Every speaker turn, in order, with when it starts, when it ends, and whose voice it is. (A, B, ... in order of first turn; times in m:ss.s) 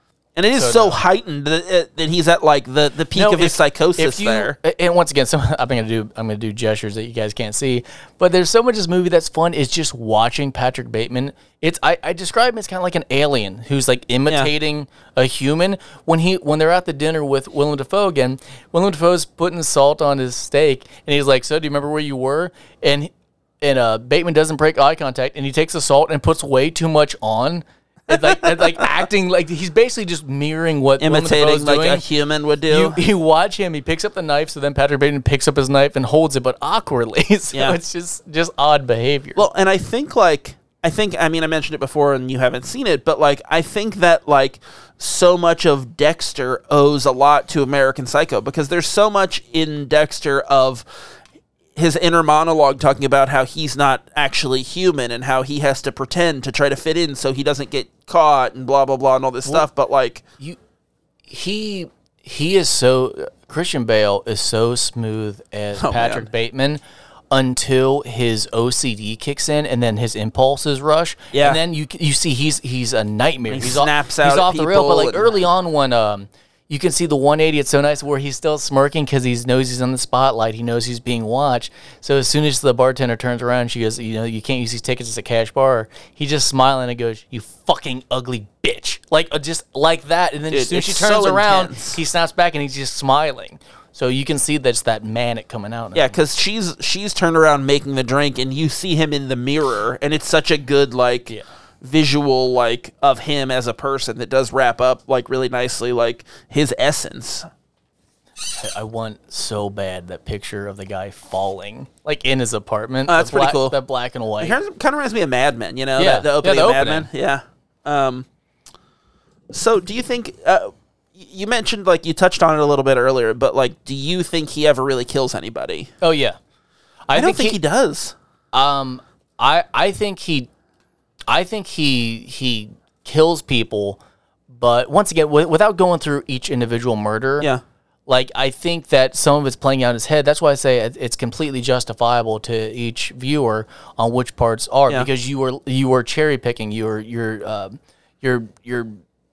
0:00.4-0:04.6 A
0:00.6-0:01.0 B
0:03.2-0:32.1 B
0:28.1-0:28.9 A
0:31.0-0:33.0 A
0:32.7-0:39.4 B
0:37.5-0:37.8 A
0:39.4-0:50.8 A
0:51.8-1:00.2 A
1:01.3-1:06.8 B
1:05.8-1:06.3 A
1:07.3-1:36.2 B
1:11.3-1:11.6 A
1:13.5-1:15.4 A
1:30.5-1:32.0 A
1:36.0-1:47.5 A
1:48.6-1:54.6 B
1:53.1-1:53.8 A
1:54.4-1:58.3 A
1:56.0-1:57.1 B
1:59.5-2:05.9 A
2:06.0-2:06.4 B
2:07.1-2:07.6 B
2:07.2-2:08.2 A
2:08.5-2:10.5 B
2:11.3-2:17.5 B
2:18.1-2:28.9 B